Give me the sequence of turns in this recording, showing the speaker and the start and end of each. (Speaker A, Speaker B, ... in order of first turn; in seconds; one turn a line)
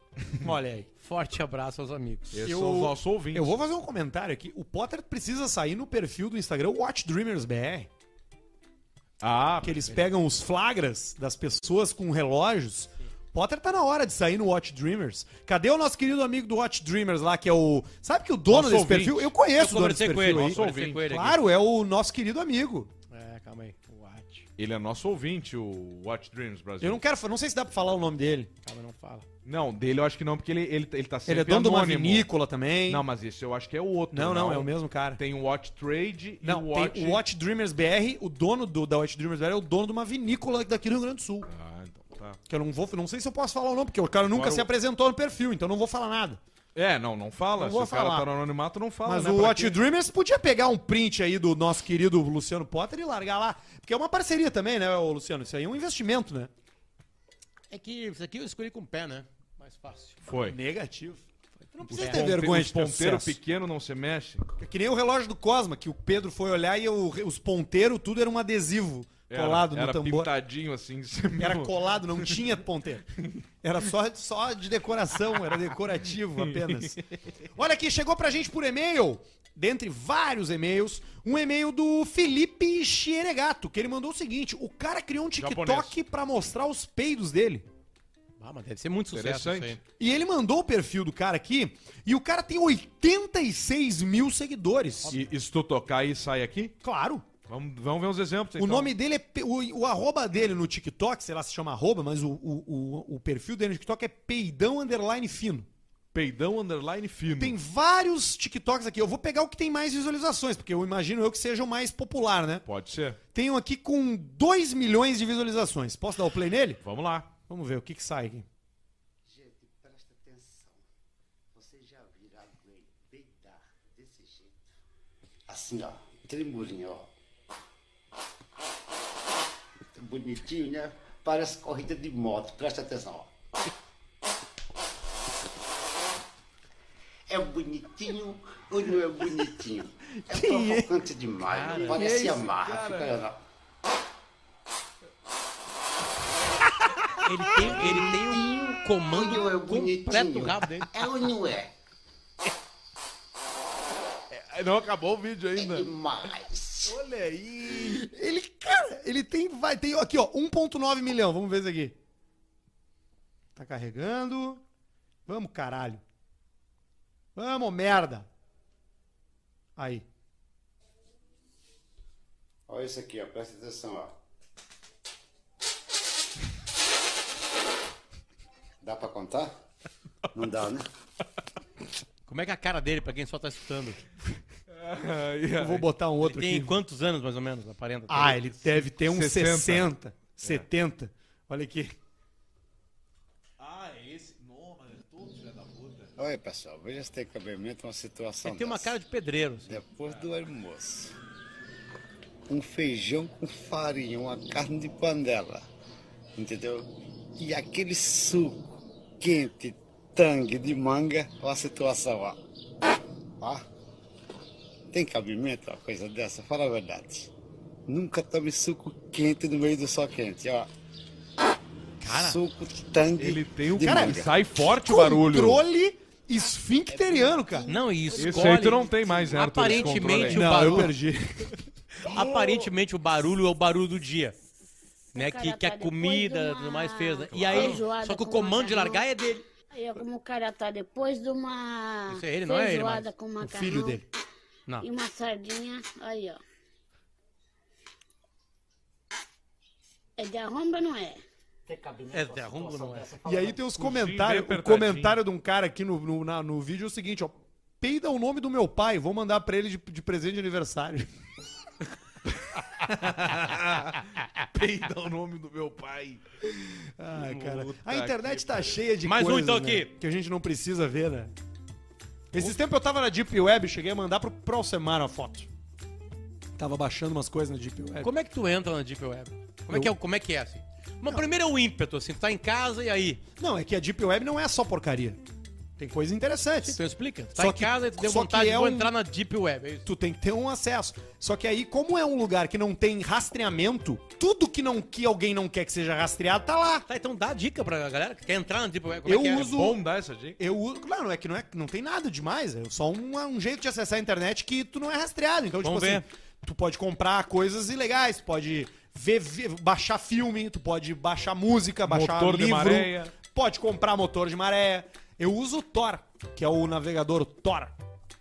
Speaker A: 0.4-0.9
Speaker B: 1.0-2.5
Speaker C: 2.3-3.5
Speaker A: 2.5-7.9
Speaker C: 9.2-10.0
Speaker A: 9.6-22.9
Speaker C: 18.5-19.3
Speaker B: 19.6-21.4
Speaker C: 20.2-21.1
Speaker B: 23.1-24.5
Speaker C: 24.6-27.0
Speaker A: 26.8-28.5
Speaker B: 28.6-29.2
Speaker C: 29.4-32.3
Speaker A: 31.3-33.0
Speaker C: 32.9-37.2
Speaker A: 34.1-35.2
Speaker A: 36.4-41.5
Speaker C: 41.5-42.4
Speaker A: 42.5-46.4
Speaker C: 44.3-44.7
Speaker C: 46.8-49.8
Speaker A: 47.5-48.3
Speaker A: 49.0-56.5
Speaker B: 57.7-60.2
Speaker C: 60.2-60.6
Speaker A: 60.4-61.2
Speaker B: 61.6-62.2
Speaker A: 61.8-63.4
Speaker C: 61.9-64.5
Speaker A: 64.6-70.3
Speaker C: 69.3-72.4
Speaker A: 71.4-77.0
Speaker C: 76.5-77.0
Speaker A: 77.5-87.7
Speaker C: 85.4-85.9
Speaker B: 88.4-89.8
Speaker C: 89.1-89.8
Speaker A: 90.0-95.2
Speaker C: 95.1-96.7
Speaker A: 96.8-97.3
Speaker C: 97.5-98.9
Speaker A: 98.6-105.7
Speaker C: 106.1-107.6
Speaker A: 107.4-112.7
Speaker C: 112.7-113.2
Speaker A: 113.3-116.8
Speaker C: 116.8-117.3
Speaker A: 117.5-118.5
Speaker D: 119.3-120.8
Speaker D: 121.5-124.6
Speaker D: 125.5-127.1
Speaker D: 129.9-133.3
Speaker D: 137.3-143.4
Speaker A: 140.3-140.9
Speaker B: 141.5-142.0
Speaker C: 141.8-143.1
Speaker B: 147.2-150.9
Speaker D: 147.6-151.7
Speaker C: 154.3-155.9
Speaker D: 155.6-157.0
Speaker C: 156.9-158.1
Speaker A: 158.0-162.0
Speaker A: 163.6-164.6
Speaker A: 165.3-166.0
Speaker A: 167.3-168.3
Speaker A: 169.8-170.1
Speaker D: 172.7-174.2
Speaker D: 178.8-179.6
Speaker D: 180.3-180.9
Speaker B: 182.3-184.0
Speaker C: 184.7-185.9
Speaker A: 185.6-186.8
Speaker B: 186.2-188.7
Speaker A: 188.1-192.0
Speaker C: 189.0-190.7
Speaker C: 193.6-196.1
Speaker D: 196.2-199.0
Speaker B: 198.4-199.8
Speaker D: 199.7-201.2
Speaker D: 202.5-205.7
Speaker D: 206.3-208.7
Speaker D: 209.2-212.4
Speaker D: 213.4-213.7
Speaker D: 214.9-217.3
Speaker D: 217.9-220.7
Speaker B: 222.0-222.4
Speaker D: 222.1-224.3
Speaker C: 223.2-225.6
Speaker A: 223.8-227.7
Speaker D: 226.9-227.7
Speaker B: 227.7-230.9
Speaker C: 228.2-230.9
Speaker D: 229.1-230.4
Speaker A: 230.2-231.6
Speaker B: 232.0-234.4
Speaker C: 232.1-232.6
Speaker E: 235.1-239.1
Speaker B: 235.2-239.5
Speaker C: 237.3-237.8
Speaker E: 239.7-244.0
Speaker B: 242.1-243.1
Speaker A: 243.4-244.0
Speaker E: 244.8-246.4
Speaker E: 250.2-251.2
Speaker D: 251.7-253.5
Speaker B: 252.1-253.2
Speaker A: 253.2-261.1
Speaker C: 253.8-255.2
Speaker C: 262.8-266.2
Speaker A: 266.4-271.3
Speaker C: 267.1-268.8
Speaker B: 269.0-269.9
Speaker A: 272.3-275.5
Speaker A: 276.6-278.1
Speaker B: 278.0-283.2
Speaker A: 283.4-285.2
Speaker A: 285.8-286.8
Speaker B: 286.6-289.9
Speaker A: 287.4-288.9
Speaker A: 289.9-296.9
Speaker B: 296.9-299.5
Speaker A: 299.1-299.8
Speaker C: 299.4-300.4
Speaker A: 300.4-317.7
Speaker B: 305.6-306.1
Speaker C: 311.9-313.1